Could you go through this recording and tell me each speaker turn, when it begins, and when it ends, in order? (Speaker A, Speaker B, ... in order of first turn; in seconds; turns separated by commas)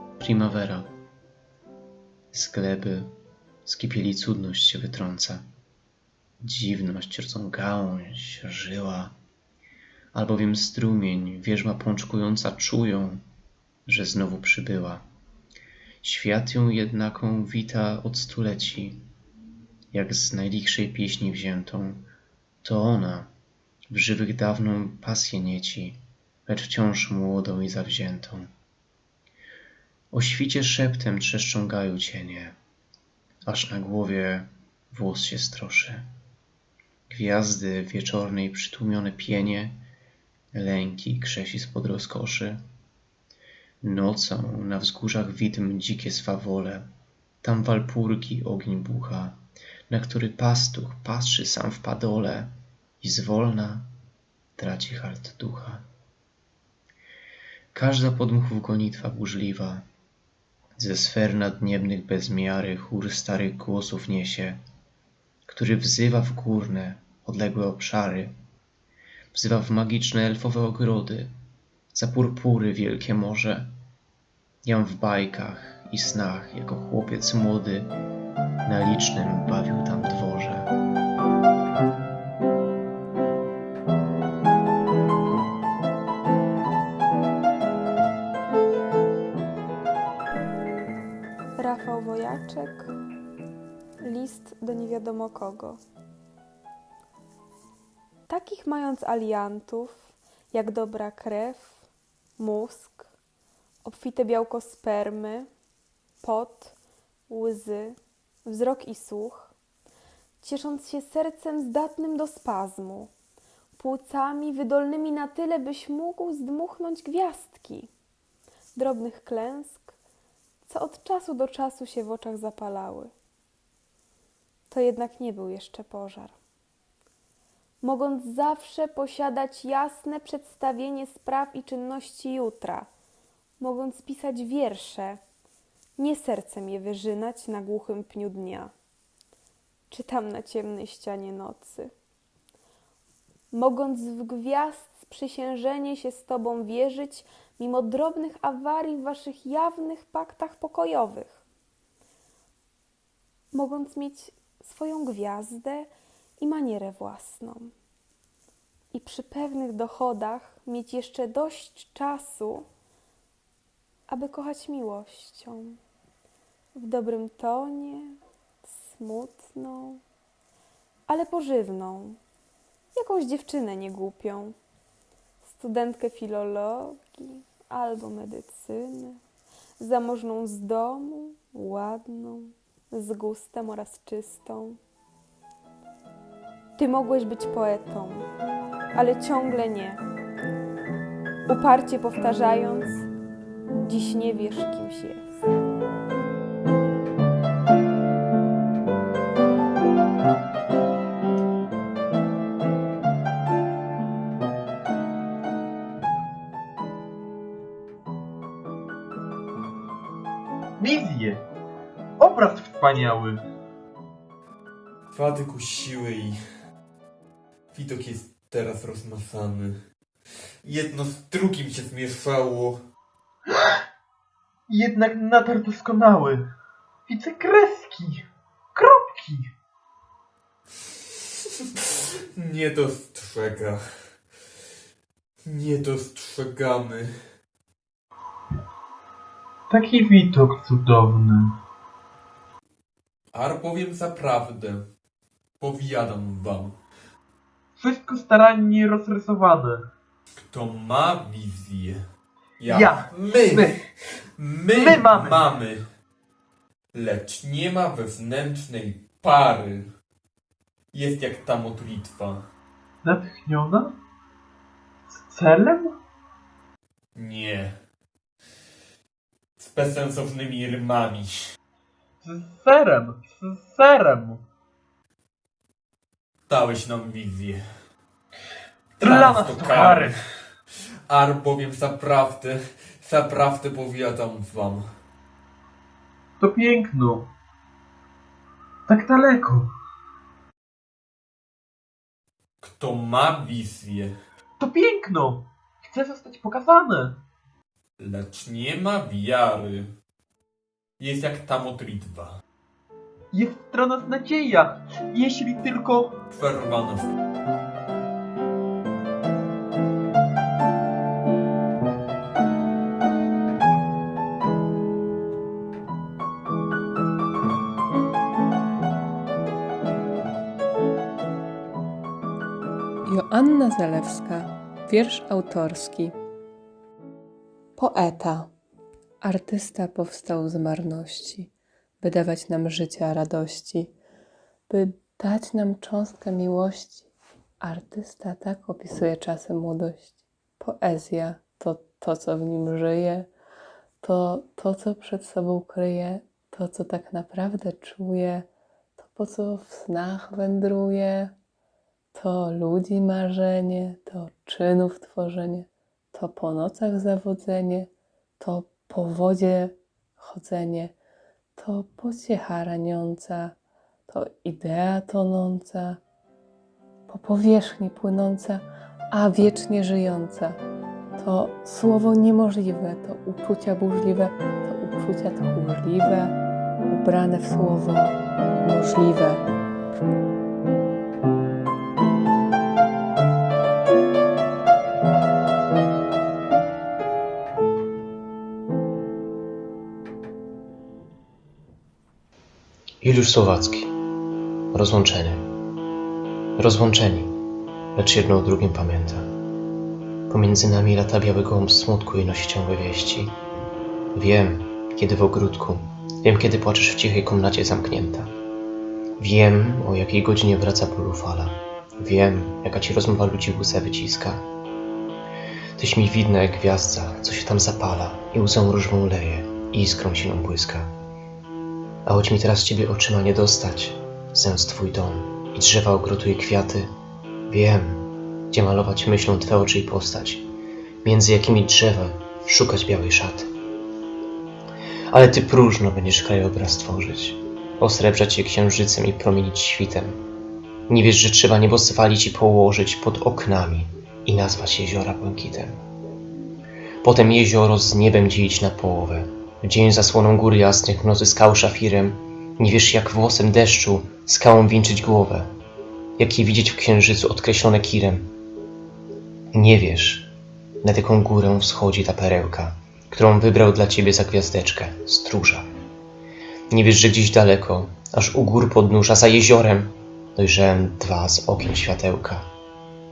Speaker A: 0.2-0.9, Speaker A: 2.3-3.1, Speaker A: 3.7-5.5, Speaker A: 6.4-9.2, Speaker A: 10.1-13.2, Speaker A: 13.9-15.1, Speaker A: 16.0-19.0, Speaker A: 19.9-22.1, Speaker A: 22.6-23.3, Speaker A: 23.9-28.5, Speaker A: 30.1-32.6, Speaker A: 33.5-36.1, Speaker A: 37.1-39.8, Speaker A: 40.5-42.6, Speaker A: 43.8-46.9, Speaker A: 47.4-49.4, Speaker A: 49.9-53.9, Speaker A: 54.6-55.8, Speaker A: 57.7-59.8, Speaker A: 60.8-64.6, Speaker A: 65.5-68.3, Speaker A: 69.3-71.3, Speaker A: 71.9-73.7, Speaker A: 74.6-77.9, Speaker A: 78.7-80.7, Speaker B: 91.6-92.9, Speaker B: 94.0-95.8, Speaker B: 98.3-101.8, Speaker B: 102.4-103.1, Speaker B: 103.8-105.5, Speaker B: 106.2-106.8, Speaker B: 107.3-109.5, Speaker B: 110.4-113.1, Speaker B: 113.8-117.9, Speaker B: 118.8-119.9, Speaker B: 120.6-123.1, Speaker B: 124.7-126.4, Speaker B: 127.8-132.9, Speaker B: 133.6-135.2, Speaker B: 136.0-138.7, Speaker B: 139.9-141.9, Speaker B: 143.5-151.4, Speaker B: 153.5-157.7, Speaker B: 158.9-162.7, Speaker B: 164.1-165.8, Speaker B: 166.7-170.0, Speaker B: 171.1-172.2, Speaker B: 172.9-174.6, Speaker B: 175.4-179.2, Speaker B: 179.8-184.8, Speaker B: 186.8-188.3, Speaker B: 188.9-190.0, Speaker B: 191.5-193.1, Speaker B: 193.8-195.4, Speaker C: 210.8-211.4, Speaker C: 212.2-213.4, Speaker D: 215.1-216.4, Speaker D: 217.7-219.8, Speaker D: 220.6-222.8, Speaker C: 224.7-226.4, Speaker C: 227.1-229.5, Speaker D: 232.4-233.8, Speaker D: 235.4-237.1, Speaker C: 239.7-241.5, Speaker D: 243.3-244.8, Speaker D: 245.6-246.8, Speaker C: 247.8-249.8, Speaker D: 250.4-252.0, Speaker D: 252.6-253.8, Speaker C: 252.7-253.8, Speaker D: 254.4-255.8, Speaker C: 254.7-255.4, Speaker D: 256.9-259.9, Speaker D: 260.9-262.5, Speaker C: 263.0-263.9, Speaker C: 265.1-265.9, Speaker D: 267.1-267.7, Speaker D: 269.6-271.4, Speaker C: 272.2-274.4, Speaker D: 276.5-277.6, Speaker D: 279.0-280.2, Speaker C: 279.0-280.2, Speaker D: 281.1-284.9, Speaker C: 286.4-287.3, Speaker C: 288.9-289.7, Speaker D: 292.6-294.1, Speaker C: 294.6-297.2, Speaker D: 298.0-299.9, Speaker D: 301.0-302.4, Speaker C: 303.3-306.1, Speaker D: 306.3-307.1, Speaker E: 323.1-326.1, Speaker E: 327.8-328.5, Speaker E: 329.2-333.9, Speaker E: 334.7-337.1, Speaker E: 337.6-343.3, Speaker E: 344.0-348.5, Speaker E: 349.0-351.3, Speaker E: 352.1-357.9, Speaker E: 358.4-360.9, Speaker E: 361.6-363.6, Speaker E: 364.1-366.0, Speaker E: 367.1-370.6, Speaker E: 371.2-376.4, Speaker E: 376.9-379.4, Speaker A: 393.0-393.9, Speaker A: 394.7-395.4, Speaker A: 396.6-397.3, Speaker A: 398.0-399.3, Speaker A: 400.3-403.4, Speaker A: 404.1-408.3, Speaker A: 409.2-414.4, Speaker A: 415.8-420.9, Speaker A: 422.1-426.9, Speaker A: 427.5-430.5, Speaker A: 431.0-433.5, Speaker A: 435.1-440.2, Speaker A: 440.9-445.8, Speaker A: 447.0-455.5, Speaker A: 456.2-458.3, Speaker A: 459.5-460.3, Speaker A: 460.8-465.7, Speaker A: 466.7-472.4